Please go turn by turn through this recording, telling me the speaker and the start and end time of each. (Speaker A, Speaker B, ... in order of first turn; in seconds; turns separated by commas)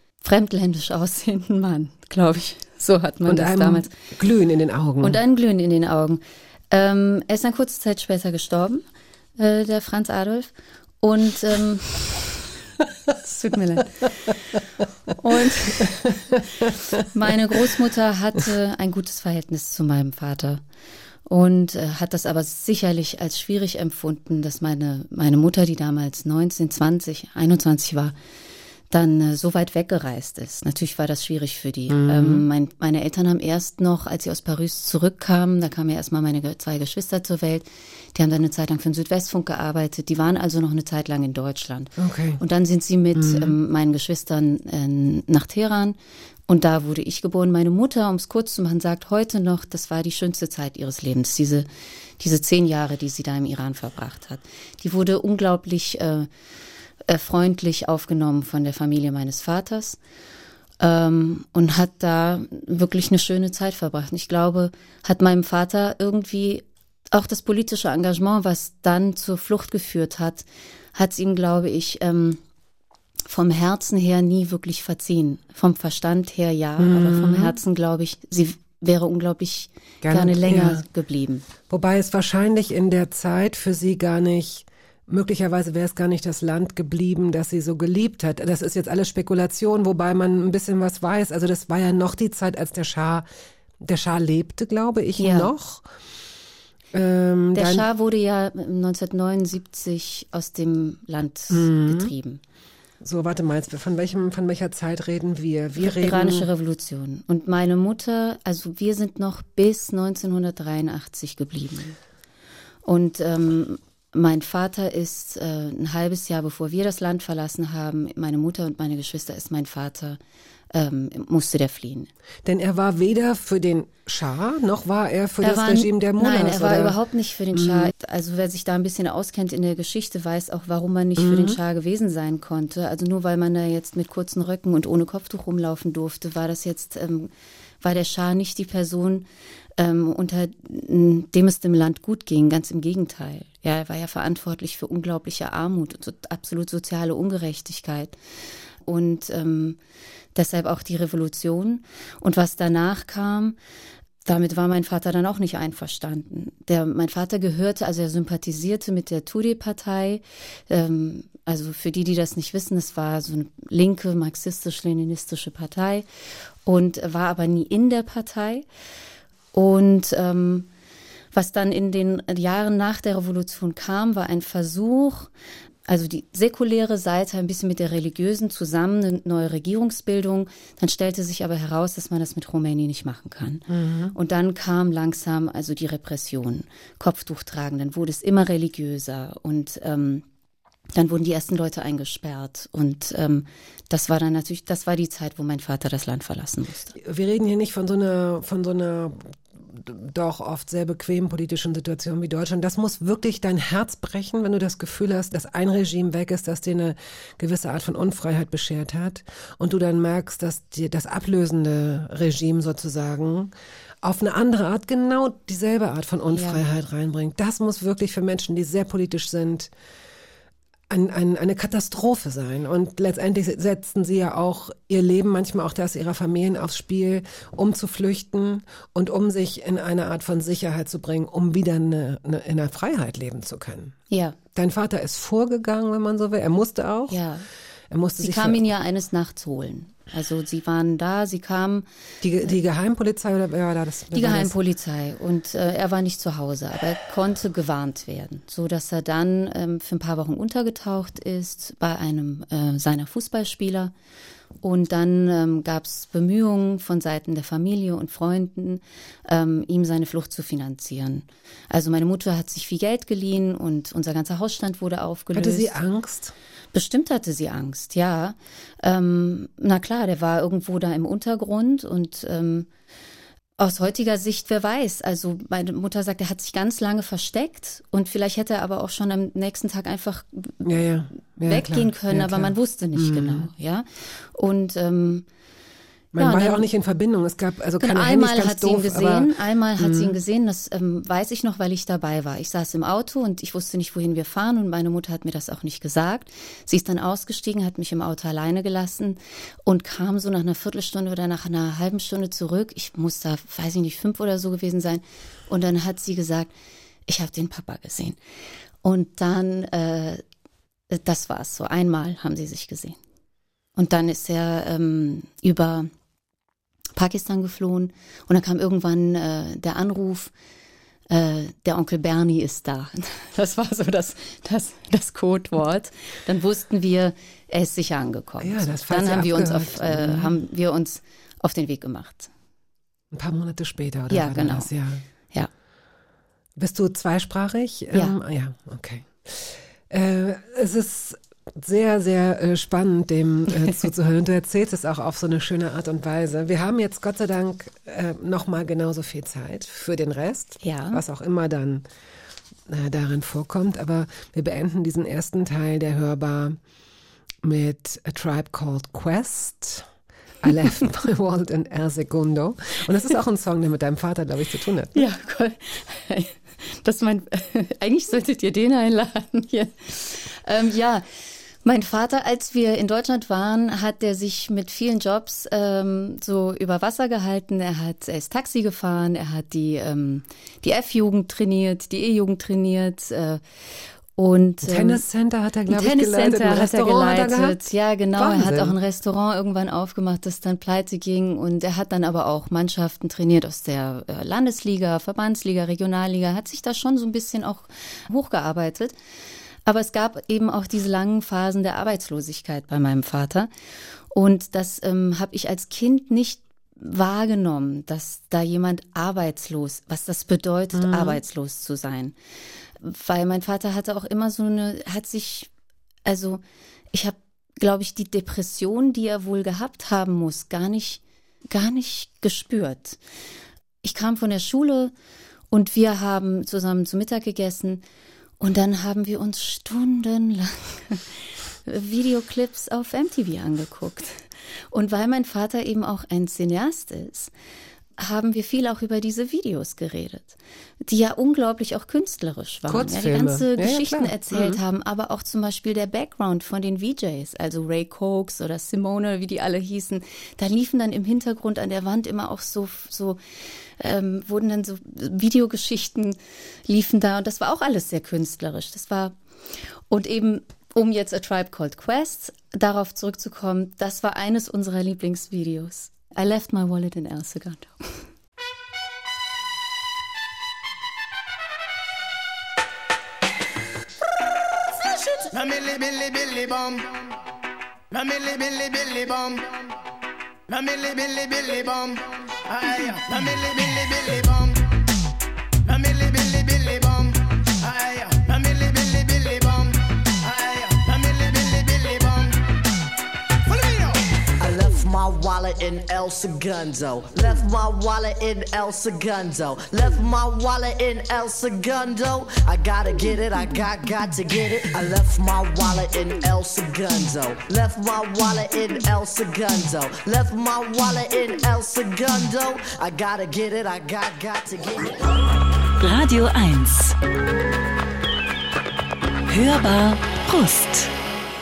Speaker A: 0.2-3.9, Speaker B: 3.2-5.2, Speaker A: 5.0-8.8, Speaker A: 9.4-12.4, Speaker A: 13.2-14.1, Speaker A: 15.2-16.2, Speaker B: 15.8-17.0, Speaker A: 17.1-20.6, Speaker A: 21.3-28.1, Speaker A: 28.9-46.0, Speaker B: 31.9-32.5, Speaker B: 42.0-42.4, Speaker B: 43.1-43.5, Speaker A: 46.5-51.7, Speaker A: 52.2-56.3, Speaker A: 57.1-60.0, Speaker A: 60.8-72.4, Speaker A: 73.3-81.4, Speaker B: 76.8-77.5, Speaker B: 80.0-80.8, Speaker B: 81.7-93.2, Speaker B: 93.8-95.8, Speaker A: 95.2-95.5, Speaker B: 96.9-97.9, Speaker A: 97.5-102.4, Speaker B: 101.5-102.1, Speaker B: 103.0-106.5, Speaker A: 105.8-112.0, Speaker A: 112.8-120.2, Speaker A: 120.7-122.1, Speaker B: 122.4-127.0, Speaker A: 125.4-139.2, Speaker B: 127.5-127.9, Speaker B: 131.2-131.6, Speaker A: 139.8-148.1, Speaker A: 148.9-149.8, Speaker A: 150.3-153.5, Speaker A: 154.2-166.1, Speaker A: 166.7-168.6, Speaker A: 169.5-170.7, Speaker A: 171.3-175.3, Speaker A: 175.9-183.6, Speaker B: 183.7-184.1, Speaker A: 184.1-190.2, Speaker A: 190.9-196.9, Speaker B: 196.9-213.5, Speaker B: 214.0-219.7, Speaker A: 216.3-216.6, Speaker B: 220.9-233.9, Speaker A: 234.1-234.4, Speaker B: 234.5-237.2, Speaker A: 237.1-237.4, Speaker B: 237.9-238.6, Speaker A: 238.2-241.8, Speaker B: 242.2-244.5, Speaker A: 244.1-253.9, Speaker A: 254.6-265.8, Speaker B: 265.3-266.3, Speaker A: 266.7-272.7, Speaker A: 273.6-280.6, Speaker B: 280.6-283.5, Speaker A: 281.4-285.2, Speaker B: 286.1-290.2, Speaker A: 286.2-286.7, Speaker A: 287.8-306.5, Speaker A: 307.1-308.2, Speaker A: 308.8-310.2, Speaker A: 310.9-312.9, Speaker A: 313.8-315.9, Speaker A: 316.9-320.3, Speaker A: 321.1-332.3, Speaker B: 328.4-330.3, Speaker B: 333.1-335.0, Speaker A: 334.1-334.7, Speaker B: 336.6-351.8, Speaker A: 350.6-351.0, Speaker B: 352.7-356.6, Speaker B: 357.4-359.9, Speaker B: 360.4-365.0, Speaker A: 364.9-371.0, Speaker A: 371.6-383.4, Speaker A: 384.1-385.0, Speaker B: 384.6-387.6, Speaker A: 385.7-398.9, Speaker B: 388.1-388.8, Speaker A: 399.6-403.5, Speaker A: 404.1-412.1, Speaker B: 410.7-411.2, Speaker A: 412.8-415.5, Speaker A: 416.1-416.4, Speaker A: 416.9-423.0, Speaker A: 423.8-424.9, Speaker A: 425.5-427.8, Speaker A: 428.4-431.0, Speaker A: 431.6-437.3, Speaker A: 438.0-453.2, Speaker B: 442.7-444.6, Speaker A: 453.8-459.1, Speaker A: 459.9-468.0, Speaker C: 474.8-477.0, Speaker C: 477.9-479.6, Speaker C: 480.5-484.7, Speaker C: 485.6-492.4, Speaker C: 493.5-494.0, Speaker D: 494.4-515.3, Speaker E: 515.8-517.0, Speaker E: 519.3-520.9